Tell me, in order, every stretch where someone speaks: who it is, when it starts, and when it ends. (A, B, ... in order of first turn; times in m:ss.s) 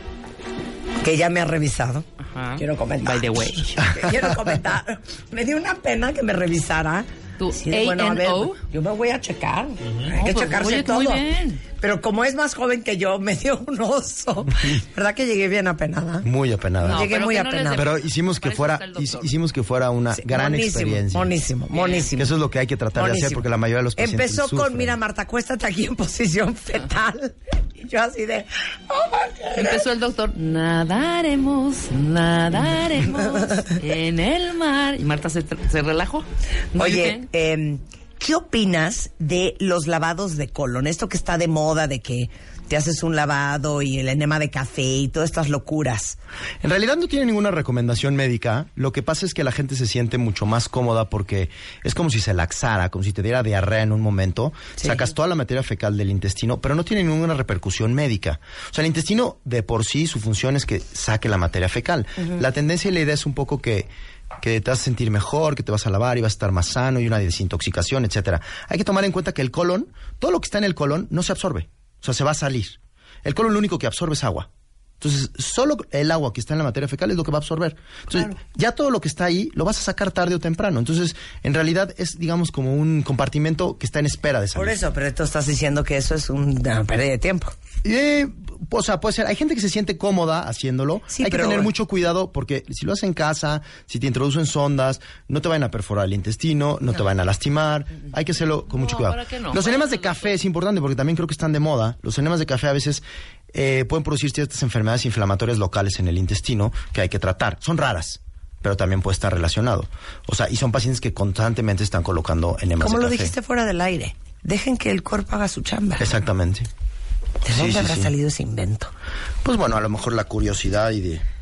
0:01.0-0:02.1 A
0:02.2-0:04.0 B
0:02.6-0:11.2 A
0:07.4-0:08.6 B
0:10.1-0:11.6 B
0:11.8-0:16.3 A
0:16.2-0:17.1 C
0:16.8-0:19.3 B
0:16.8-0:17.9 A
0:17.8-0:21.4 C
0:20.2-0:22.3 A
0:21.7-0:22.1 B
0:22.1-0:25.0 C
0:23.0-0:23.4 A
0:24.0-0:29.8 A
0:29.6-0:37.3 B
0:36.8-0:46.2 A
0:46.6-1:03.9 C
1:04.4-1:14.5 C
1:15.0-1:24.8 C
1:24.6-1:27.5 A
1:27.8-1:53.3 C
1:31.1-1:31.7 A
1:38.7-1:40.3 B
1:52.8-1:56.1 A
1:56.0-1:56.7 C
1:57.4-1:58.9 A
1:57.5-1:58.1 C
1:59.4-2:01.2 C